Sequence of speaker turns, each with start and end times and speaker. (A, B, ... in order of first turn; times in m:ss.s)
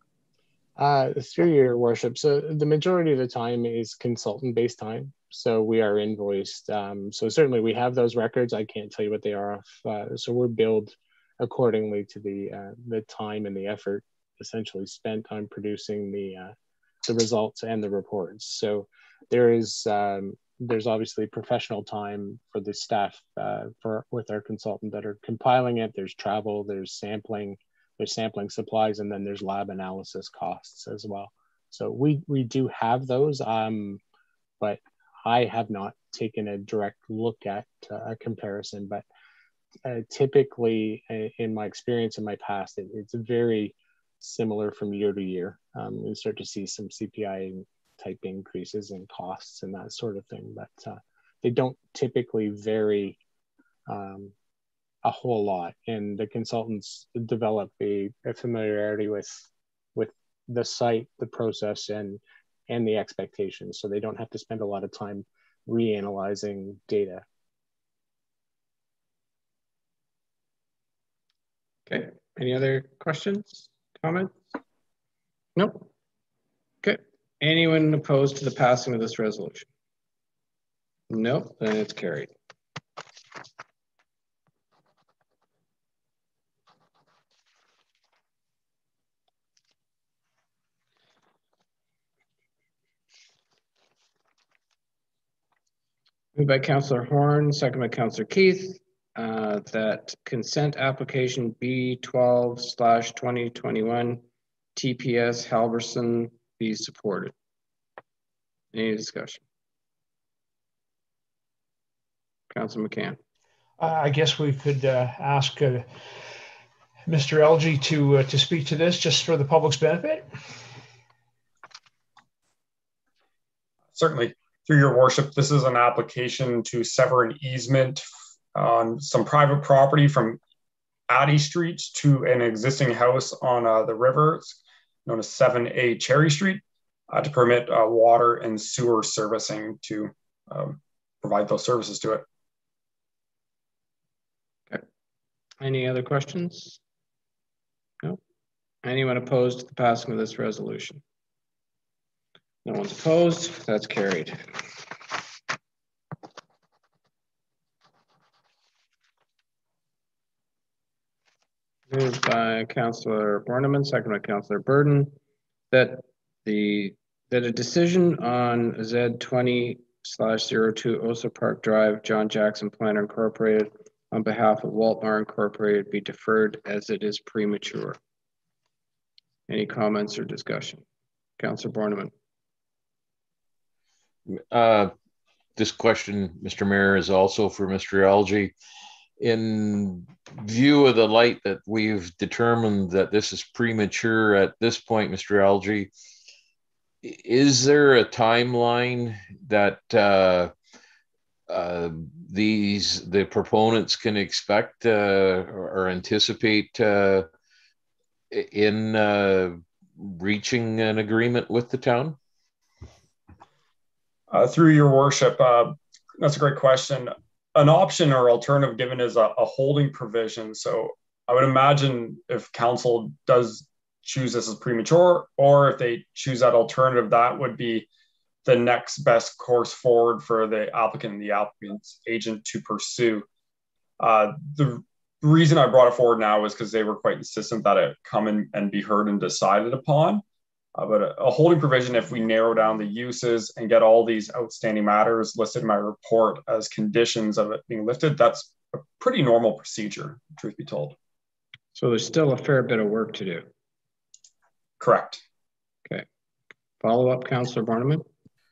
0:00.8-0:16.5 A
0:17.0-0:34.0 A
0:34.6-0:39.0 A
0:39.8-0:53.2 A
0:53.9-0:54.3 A
0:55.0-1:07.2 A
1:11.9-1:14.3 B
1:15.6-1:15.9 B
1:16.8-1:19.7 B
1:21.1-1:22.3 B
1:36.3-1:44.2 B
1:44.8-1:47.3 B
1:48.7-1:49.4 B
1:52.5-1:53.2 B
1:53.8-1:55.9 C
1:57.1-2:00.3 C
2:03.9-2:10.4 D
2:11.1-2:22.2 D
2:25.6-2:26.8 B
2:28.8-2:31.0 B
2:32.6-2:34.5 B
2:41.9-2:45.1 B
2:45.7-2:58.0 B
2:59.5-3:00.8 B
3:01.4-3:02.1 B
3:04.3-3:04.9 E
3:05.6-3:08.5 E
3:09.2-3:15.9 E
3:17.0-3:20.5 E
3:21.5-3:27.3 E
3:28.3-3:32.2 E
3:34.3-3:47.8 D
3:48.4-3:53.2 D
3:54.0-4:00.2 D
4:00.8-4:11.0 D
4:11.7-4:13.5 B
4:14.8-4:15.2 D
4:16.8-4:18.0 B